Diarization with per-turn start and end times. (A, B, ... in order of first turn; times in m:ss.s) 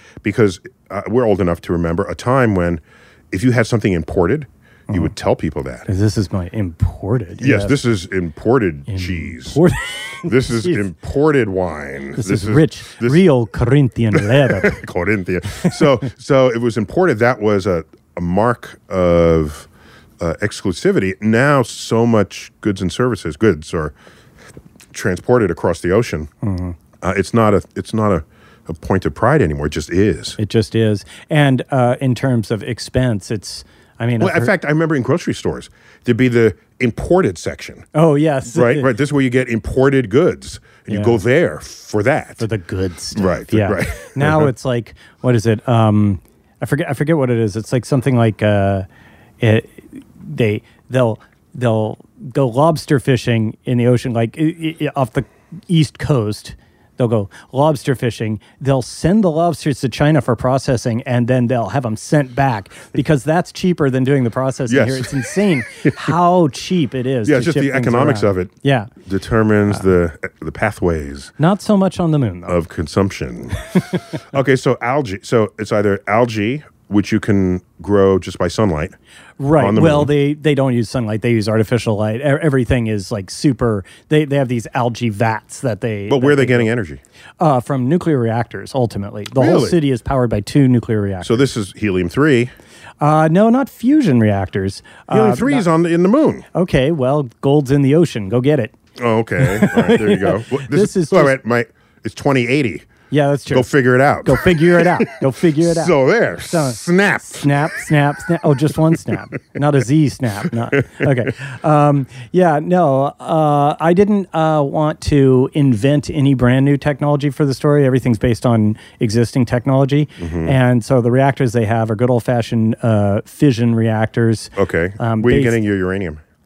0:00.2-0:05.9 A
0:05.9-0:07.8 B
0:07.4-0:09.6 A
0:08.9-0:10.8 B
0:10.2-0:13.2 A
0:12.2-0:14.8 B
0:14.2-0:19.7 A
0:20.2-0:23.9 A
0:24.9-0:26.3 A
0:26.4-0:26.8 B
0:27.0-0:30.4 A
0:30.4-0:34.5 B
0:34.2-0:37.9 A
0:37.9-0:38.9 B
0:38.5-0:42.5 A
0:40.9-0:41.2 B
0:42.4-0:48.9 B
0:43.1-0:44.5 A
0:49.4-1:08.9 B
1:04.7-1:05.2 A
1:07.2-1:08.5 A
1:09.0-1:11.3 A
1:11.4-1:12.6 B
1:12.5-1:19.0 A
1:19.4-1:26.7 B
1:19.6-1:20.1 A
1:26.1-1:27.0 A
1:27.4-1:31.4 B
1:29.4-1:29.8 A
1:31.2-1:32.5 A
1:33.0-1:35.6 B
1:35.1-1:36.5 A
1:36.5-1:38.7 B
1:39.0-1:42.9 A
1:39.4-1:41.4 B
1:43.1-1:43.7 B
1:43.5-1:47.8 A
1:44.2-1:46.0 B
1:46.5-2:05.6 B
2:00.2-2:00.6 A
2:04.6-2:06.2 A